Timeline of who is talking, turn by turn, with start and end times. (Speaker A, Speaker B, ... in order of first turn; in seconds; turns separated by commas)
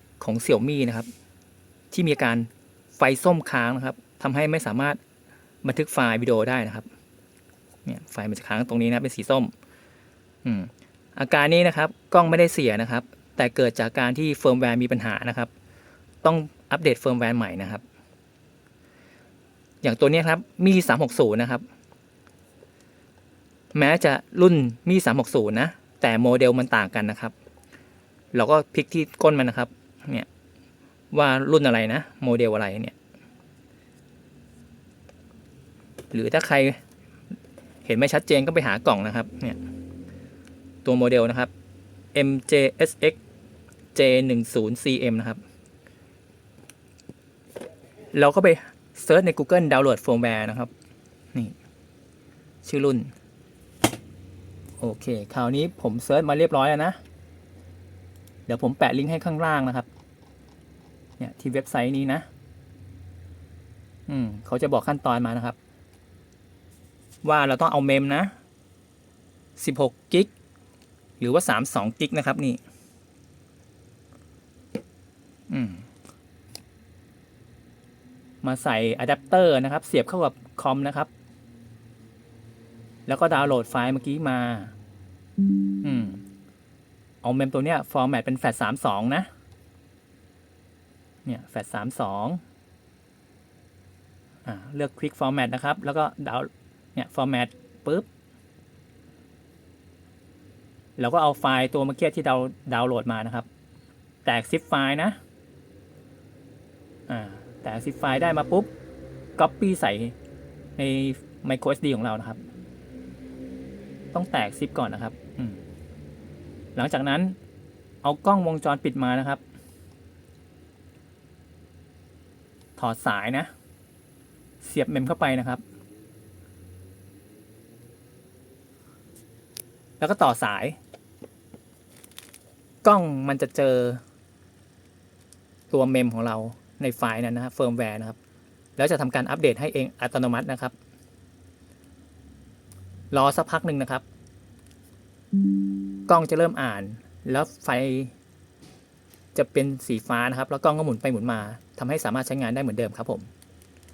Speaker A: 0.2-1.1, Speaker A: 1.9-5.0, Speaker A: 5.6-6.9, Speaker A: 7.8-9.5, Speaker A: 10.4-15.5, Speaker A: 16.2-17.8, Speaker A: 19.8-21.6, Speaker A: 23.7-27.3, Speaker A: 28.3-30.3, Speaker A: 31.1-32.9, Speaker A: 36.1-36.8, Speaker A: 37.8-39.6, Speaker A: 40.8-41.5, Speaker A: 42.1-43.2, Speaker A: 43.9-45.4, Speaker A: 48.1-50.7, Speaker A: 52.6-53.1, Speaker A: 54.8-57.0, Speaker A: 58.5-59.9, Speaker A: 61.2-62.3, Speaker A: 64.1-65.6, Speaker A: 67.2-68.3, Speaker A: 69.6-70.3, Speaker A: 71.2-72.6, Speaker A: 75.5-75.8, Speaker A: 78.4-81.1, Speaker A: 83.0-84.7, Speaker A: 85.8-86.2, Speaker A: 87.2-89.3, Speaker A: 91.2-92.4, Speaker A: 94.4-98.1, Speaker A: 101.0-103.5, Speaker A: 104.2-105.2, Speaker A: 107.1-108.7, Speaker A: 109.4-110.1, Speaker A: 110.8-112.4, Speaker A: 114.1-115.6, Speaker A: 116.7-117.4, Speaker A: 118.0-119.4, Speaker A: 122.8-123.5, Speaker A: 124.6-125.6, Speaker A: 130.0-130.8, Speaker A: 132.8-134.0, Speaker A: 135.7-138.2, Speaker A: 138.8-140.7, Speaker A: 143.1-144.0, Speaker A: 146.1-148.1, Speaker A: 149.3-153.3